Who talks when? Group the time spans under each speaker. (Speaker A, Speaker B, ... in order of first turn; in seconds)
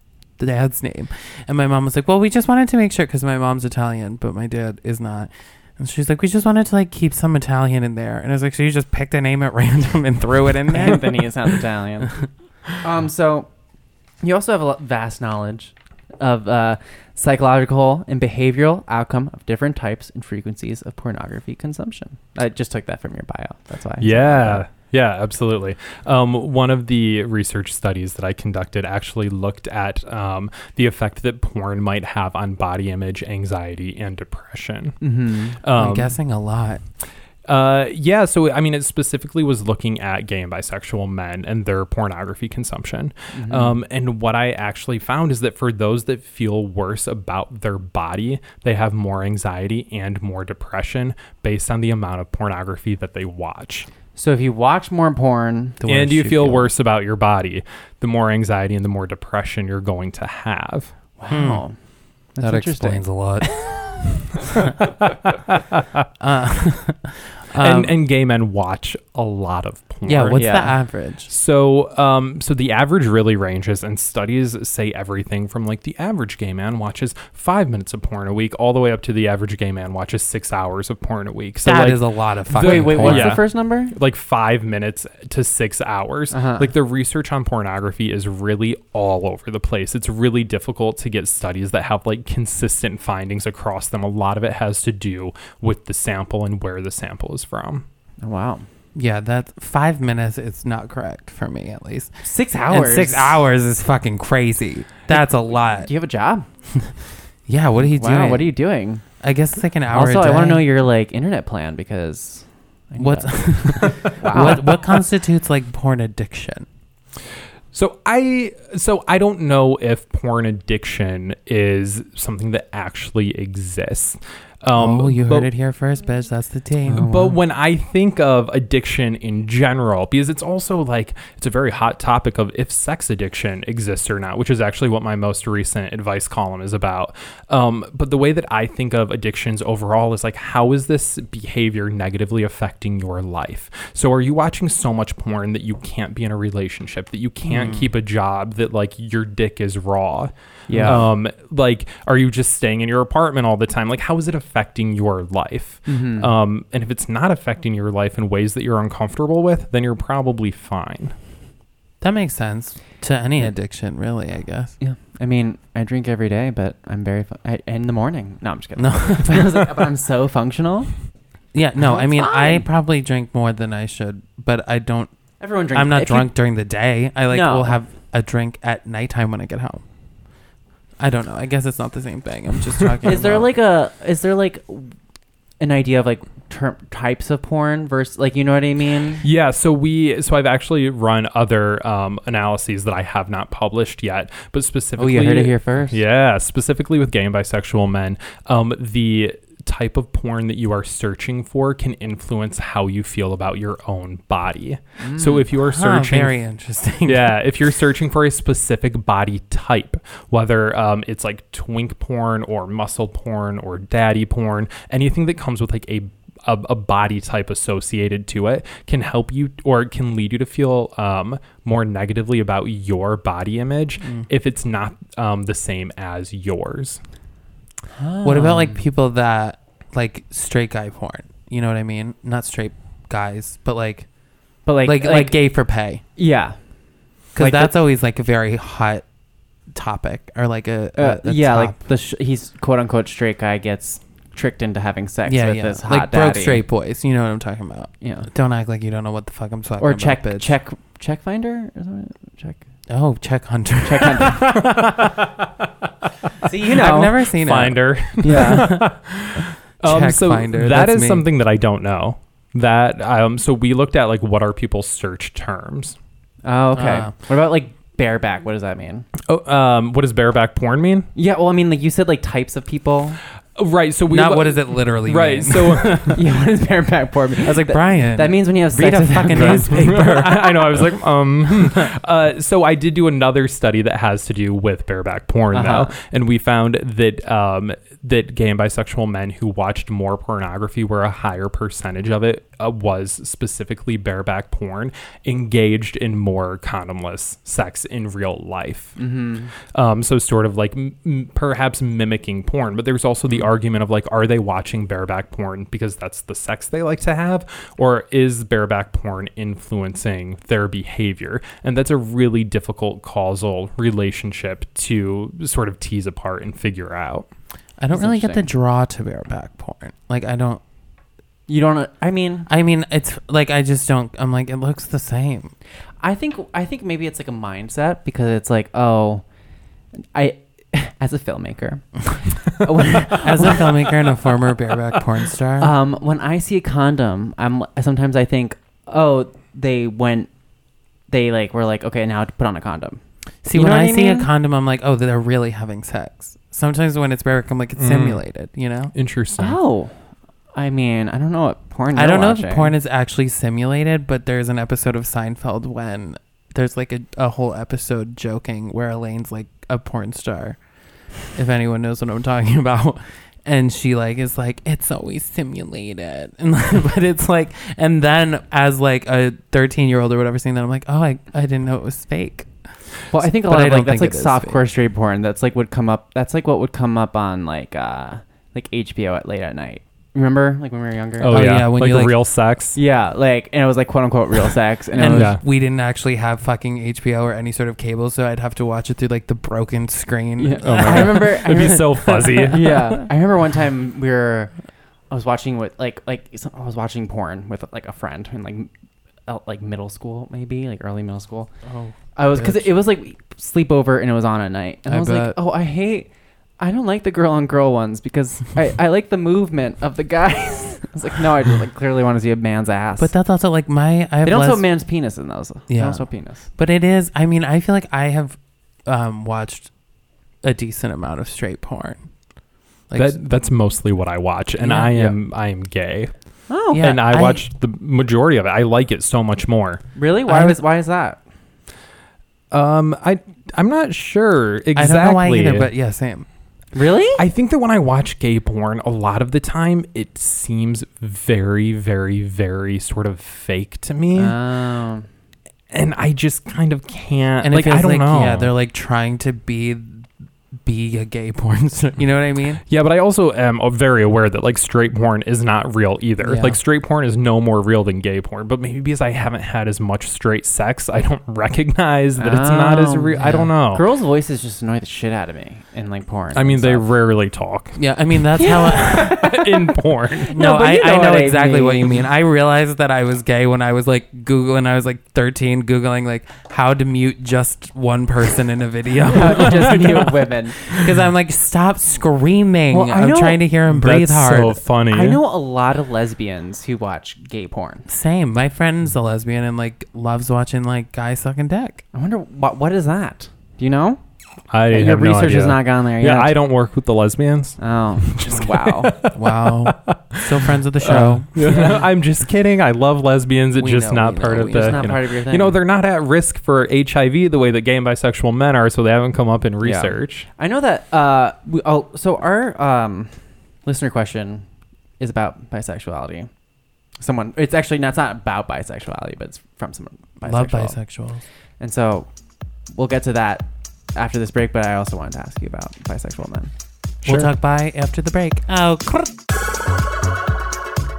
Speaker A: 0.4-11.3, 35.8-36.8, 55.8-56.7, 61.3-61.6, 62.4-63.6, 66.2-68.0, 70.1-71.3, 81.6-83.4, 99.0-102.1, 102.7-105.9, 107.5-108.5, 109.2-110.7, 113.0-116.7, 124.7-127.3, 147.5-147.9, 150.7-151.0, 162.0-164.8, 168.8-169.7, 171.5-175.1, 175.7-179.8, 181.0-183.5, 205.5-207.4, 228.2-234.1, 234.8-236.0, 237.3-239.1, 239.7-241.8, 245.3-250.5, 252.9-254.9, 256.6-258.9, 259.8-261.3, 266.7-267.1, 274.1-276.2, 277.4-280.8, 317.8-320.6, 322.5-325.5, 333.1-335.7, 343.4-348.9, 351.9-360.6, 361.3-372.5, 373.1-374.6, 381.3-382.1, 385.0-392.6, 401.7-402.8, 404.9-405.4, 413.0-414.6, 415.7-419.7, 420.4-422.0, 422.9-423.2, 424.6-424.9, 426.7-427.4, 430.3-430.6, 434.8-436.3, 447.4-450.1, 450.6-452.6, 456.2-456.6, 467.8-469.2, 470.3-480.1, 480.6-484.6, 487.9-491.8, 499.0-501.7, 503.6-504.9, 520.2-521.2, 527.0-529.1
Speaker B: 10.7-12.1, 12.8-13.5, 14.2-24.7, 35.0-35.6, 43.3-43.8, 54.2-55.8, 61.2-61.8, 62.4-64.0, 70.4-70.7, 82.6-83.9, 86.3-86.7, 98.2-98.7, 102.2-103.4, 105.1-106.5, 107.9-109.0, 109.9-114.7, 150.7-151.1, 155.9-156.3, 164.8-170.9, 171.8-172.7, 175.4-176.3, 177.3-177.8, 183.1-184.9, 185.6-189.2, 195.0-196.0, 205.0-205.5, 227.9-228.8, 234.7-235.4, 236.2-236.6, 237.4-237.8, 241.0-246.6, 248.0-248.3, 249.8-252.6, 253.8-254.5, 256.4-257.2, 258.2-258.8, 266.4-269.1, 271.1-273.2, 276.1-280.0, 285.5-285.9, 299.0-299.5, 317.9-318.5, 321.5-322.5, 326.0-329.2, 330.1-333.6, 335.6-340.3, 341.1-343.0, 343.5-344.3, 349.4-349.9, 350.5-352.7, 373.1-381.3, 382.8-385.4, 390.4-394.5, 395.1-398.7, 399.3-401.5, 402.2-413.1, 414.2-416.5, 426.5-426.9, 430.0-431.2, 436.7-437.2, 444.1-445.1, 462.2-466.9, 468.4-469.8, 470.3-472.0, 479.1-480.7, 482.7-483.4, 484.9-487.9, 491.9-494.0, 494.7-496.4, 497.6-499.0, 501.4-501.8, 504.5-505.6, 509.6-513.1, 513.7-514.5, 515.0-516.3, 517.0-520.8, 521.6-522.1, 522.7-526.5
Speaker C: 24.0-35.0, 35.6-36.1, 37.5-53.9, 55.9-60.9, 67.6-70.7, 71.3-97.8, 117.7-125.5, 126.9-161.1, 189.2-206.4, 207.1-227.0, 254.2-255.5, 256.8-266.0, 269.3-271.1, 273.6-276.2, 279.3-299.0, 299.6-317.3, 347.8-348.2, 348.9-349.6, 381.2-382.8, 385.0-385.4, 390.6-393.1, 422.9-426.1, 426.7-429.8, 432.5-435.7, 437.2-444.4, 445.7-448.5, 452.7-463.9, 466.3-470.3, 483.7-485.2, 494.5-510.3